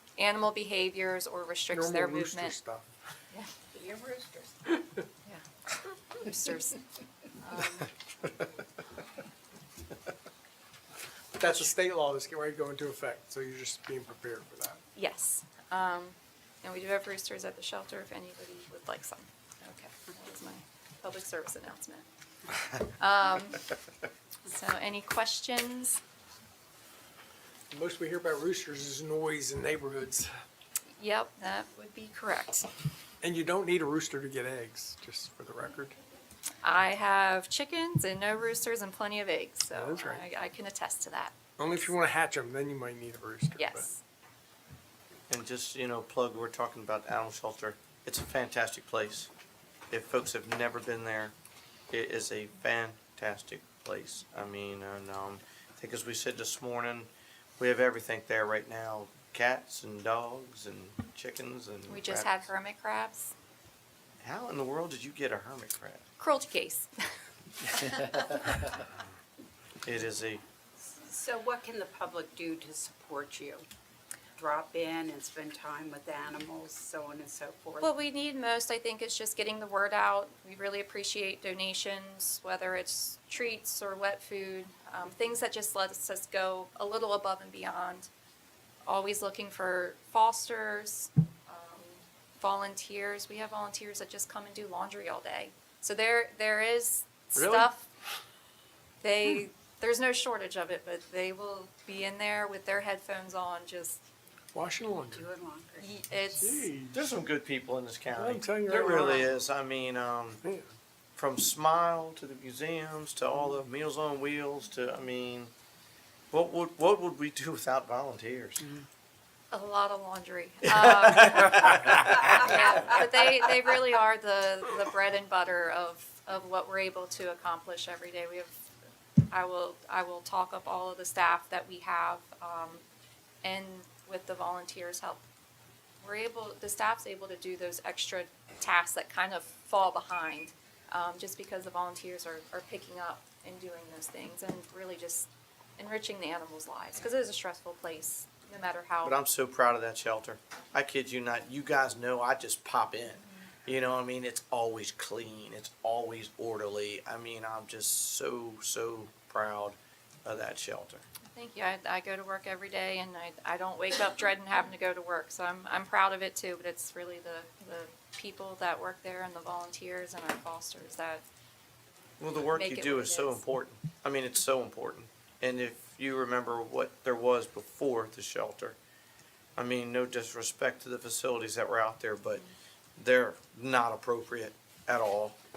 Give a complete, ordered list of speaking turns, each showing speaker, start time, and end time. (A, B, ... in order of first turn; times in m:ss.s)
0:00.2-0:02.6 A
0:01.7-0:02.9 B
0:03.7-0:04.8 C
0:06.1-0:06.8 A
0:07.4-0:07.9 A
0:11.3-0:14.8 B
0:11.4-0:11.7 A
0:15.0-0:22.0 A
0:22.8-0:23.7 A
0:24.4-0:26.0 A
0:27.7-0:30.4 B
0:31.0-0:32.7 A
0:33.2-0:36.0 B
0:36.6-0:41.4 A
0:39.7-0:40.2 B
0:41.6-0:43.9 B
0:43.6-0:44.0 A
0:45.3-0:49.3 D
0:49.9-0:51.3 D
0:51.9-1:02.5 D
1:01.9-1:03.3 A
1:04.2-1:06.0 D
1:06.2-1:06.9 A
1:07.8-1:08.2 A
1:09.8-1:10.4 D
1:10.8-1:13.6 C
1:14.4-1:17.9 C
1:17.8-1:28.1 A
1:28.9-1:37.9 A
1:37.4-1:37.7 B
1:39.0-1:44.0 A
1:44.5-1:45.2 B
1:45.1-1:45.9 C
1:45.8-1:46.7 A
1:46.4-1:47.0 B
1:46.9-1:50.4 D
1:48.2-1:49.3 B
1:50.4-1:50.7 B
1:51.2-1:55.5 D
1:56.3-1:58.7 D
1:59.5-2:08.7 A
2:09.3-2:12.8 A
2:13.4-2:15.2 A
2:16.0-2:29.2 A
2:29.0-2:41.0 D
2:33.2-2:33.5 A
2:41.2-2:51.2 A
2:52.2-2:58.8 D
2:52.4-2:53.4 A
2:59.6-3:02.4 D
3:03.0-3:05.4 D